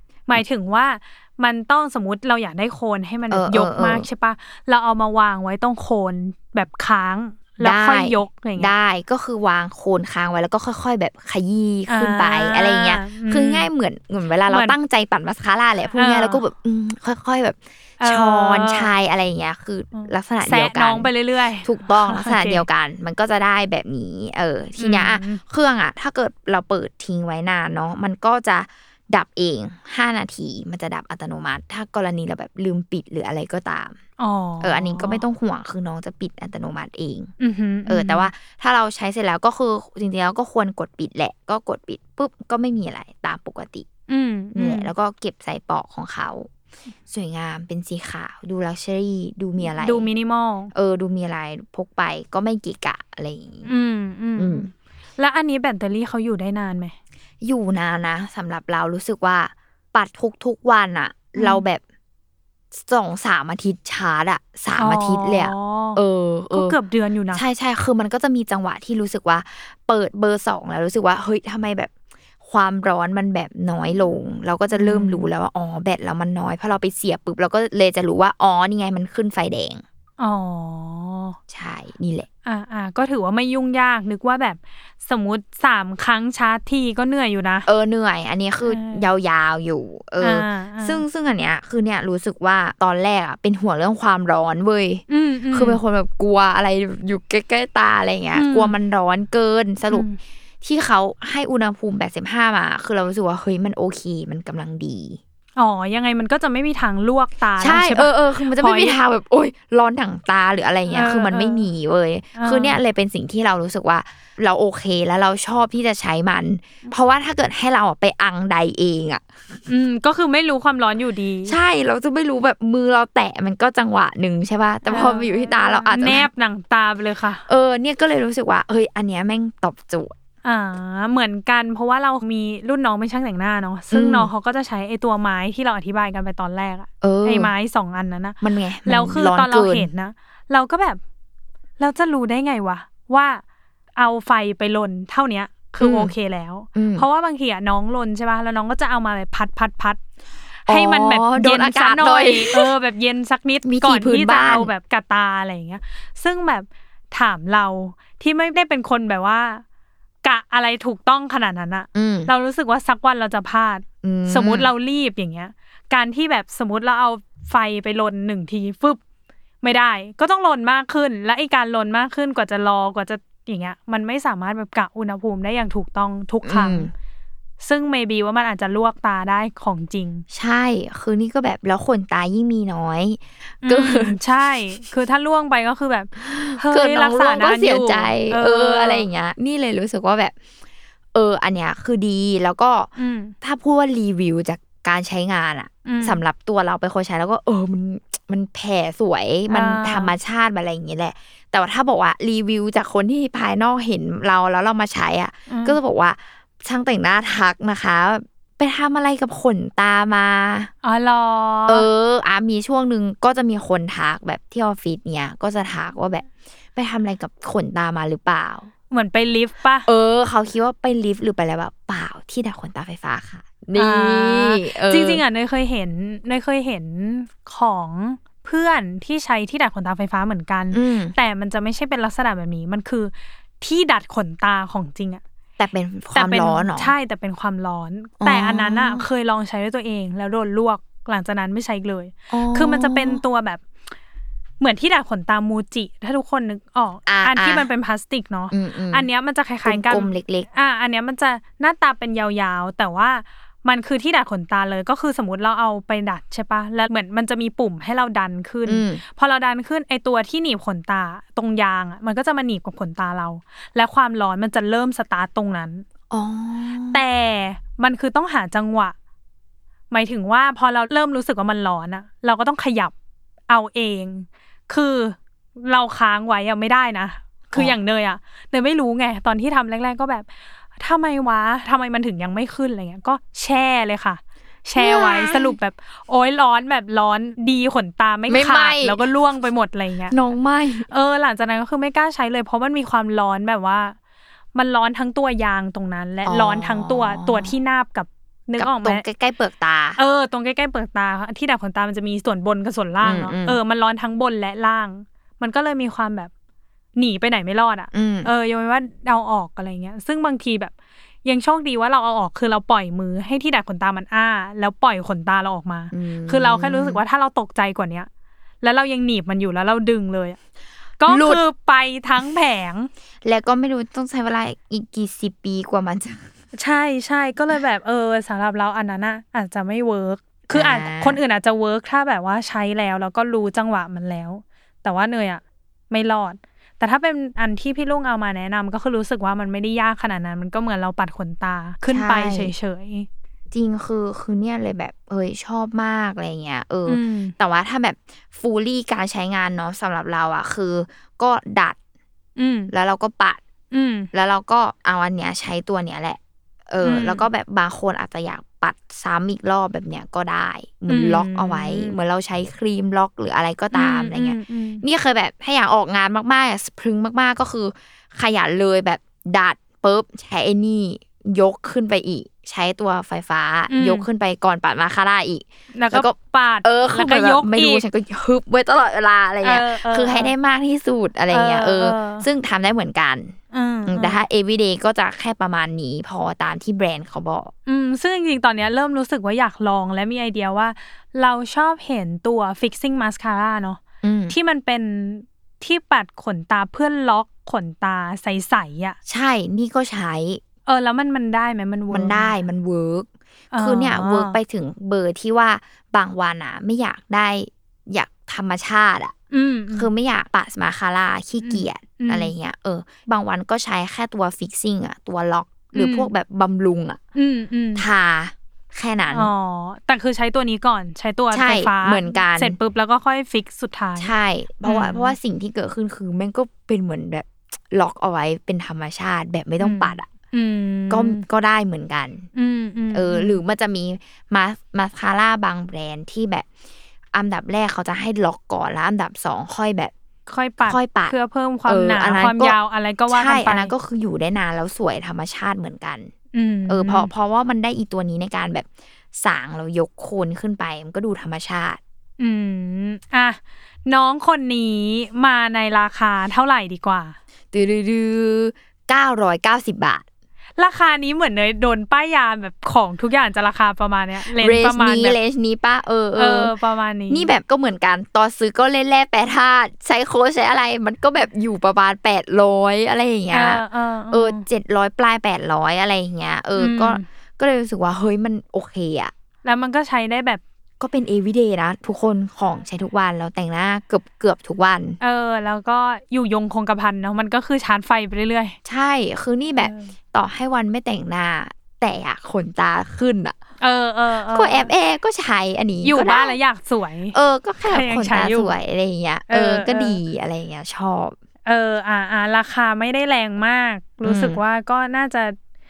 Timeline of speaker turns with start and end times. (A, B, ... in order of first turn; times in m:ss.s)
0:00.3-0:08.7 A
0:03.3-0:04.0 B
0:07.6-0:21.1 B
0:11.9-0:13.7 A
0:14.5-0:14.8 A
0:16.0-0:16.4 A
0:18.0-0:18.9 A
0:19.9-0:22.6 A
0:21.6-0:34.0 B
0:24.8-0:25.4 A
0:34.2-0:35.2 A
0:34.6-0:37.3 B
0:37.4-0:38.3 A
0:37.9-0:43.9 B
0:44.1-0:44.9 A
0:44.5-0:46.5 B
0:47.1-0:50.1 B
0:49.6-0:50.7 A
0:50.7-0:53.7 B
0:53.6-0:56.9 A
0:54.4-0:54.7 B
0:57.4-1:01.8 B
1:01.4-1:01.6 A
1:02.7-1:06.8 B
1:04.8-1:06.0 A
1:06.5-1:07.4 A
1:07.3-1:11.9 B
1:12.4-1:19.8 B
1:14.7-1:15.3 A
1:20.2-1:21.4 A
1:21.5-1:22.3 B
1:22.4-1:27.7 A
1:27.6-1:40.1 B
1:28.6-1:29.1 A
1:30.2-1:31.0 A
1:35.1-1:35.8 A
1:38.3-1:38.7 A
1:39.9-1:40.2 A
1:40.6-1:45.2 B
1:45.6-1:49.0 A
1:47.6-1:59.6 B
1:50.9-1:51.7 A
1:52.3-1:52.8 A
1:59.7-2:01.6 A
2:01.5-2:06.3 B
2:04.8-2:07.4 A
2:07.5-2:10.1 B
2:10.4-2:21.0 A
2:13.9-2:14.3 B
2:17.0-2:17.5 B
2:18.4-2:19.9 B
2:21.8-2:23.4 A
2:24.0-2:30.0 A
2:25.8-2:26.1 B
2:26.7-2:27.0 B
2:30.6-2:39.6 A
2:30.7-2:32.7 B
2:33.6-2:34.7 B
2:40.2-2:49.0 A
2:41.9-2:42.3 B
2:44.0-2:44.7 B
2:49.6-2:56.9 A
2:56.4-2:56.9 B
2:57.6-3:00.2 A
3:00.3-3:04.2 B
3:03.6-3:09.0 A
3:06.2-3:10.3 B
3:11.1-3:12.9 B
3:13.0-3:13.3 A
3:13.4-3:30.7 B
3:15.8-3:16.2 A
3:19.5-3:20.1 A
3:25.5-3:25.8 A
3:30.8-3:31.9 A
3:31.7-3:38.7 B
3:38.9-3:39.9 A
3:39.8-3:45.2 B
3:43.7-3:55.2 A
3:50.7-3:51.2 B
3:55.6-3:56.9 B
3:56.1-4:03.6 A
3:58.2-3:59.0 B
4:02.3-4:03.2 B
4:04.6-4:25.8 A
4:07.1-4:07.7 B
4:08.5-4:09.1 B
4:09.6-4:10.5 B
4:18.6-4:19.0 B
4:26.1-4:27.0 B
4:26.9-4:29.0 A
4:29.9-4:32.9 A
4:33.5-4:50.1 A
4:44.8-4:45.6 B
4:48.3-4:49.0 B
4:50.1-4:50.9 B
4:50.9-4:54.0 A
4:54.5-4:59.0 A
4:56.2-4:57.5 B
4:58.6-5:00.0 B
5:00.0-5:06.3 A
5:03.0-5:03.6 B
5:07.0-5:10.7 A
5:07.9-5:08.3 B
5:11.2-5:18.1 A
5:15.9-5:17.0 B
5:18.6-5:20.4 A
5:21.0-5:22.9 A
5:21.1-5:21.4 B
5:23.2-5:26.3 B
5:26.5-5:43.1 A
5:30.5-5:31.2 B
5:41.9-5:42.5 B
5:43.5-5:51.8 B
5:46.9-5:47.3 A
5:52.4-5:52.7 A
5:52.7-5:53.4 B
5:53.7-5:54.1 A
5:54.1-6:23.4 B
5:56.8-5:57.2 A
6:00.9-6:02.0 A
6:03.7-6:04.8 A
6:13.7-6:14.0 A
6:15.7-6:17.8 A
6:19.4-6:20.3 A
6:21.3-6:22.3 A
6:23.5-6:24.2 A
6:23.9-6:27.5 B
6:27.7-6:39.0 A
6:34.0-6:34.4 B
6:39.1-6:40.4 B
6:40.7-6:42.3 A
6:41.9-6:49.1 B
6:43.5-6:44.4 A
6:49.3-6:49.9 A
6:49.7-6:57.0 B
6:51.4-6:52.3 A
6:55.7-6:56.1 A
6:57.2-6:57.8 A
6:57.8-6:59.3 B
6:59.1-7:04.1 A
7:01.3-7:02.6 B
7:04.0-7:10.1 B
7:04.6-7:05.2 A
7:09.6-7:11.2 A
7:10.9-7:12.3 B
7:12.3-7:13.4 A
7:12.9-7:16.5 B
7:17.1-7:19.9 B
7:20.3-7:23.7 A
7:20.6-7:21.1 B
7:21.6-7:22.6 B
7:23.1-7:26.1 B
7:26.3-7:27.1 A
7:26.7-7:31.8 B
7:32.2-7:37.2 A
7:37.5-7:40.0 B
7:40.6-7:45.2 A
7:44.3-7:46.5 B
7:46.2-7:47.3 A
7:47.1-7:59.1 B
7:53.3-7:54.4 A
7:56.6-7:57.0 A
7:59.4-8:00.4 A
8:00.8-8:05.0 B
8:05.0-8:08.6 A
8:08.6-8:13.4 B
8:09.6-8:09.9 A
8:13.6-8:14.7 A
8:14.3-8:16.4 B
8:15.8-8:17.2 A
8:17.1-8:21.2 B
8:17.7-8:18.5 A
8:19.3-8:20.0 A
8:21.4-8:25.4 A
8:24.0-8:24.4 B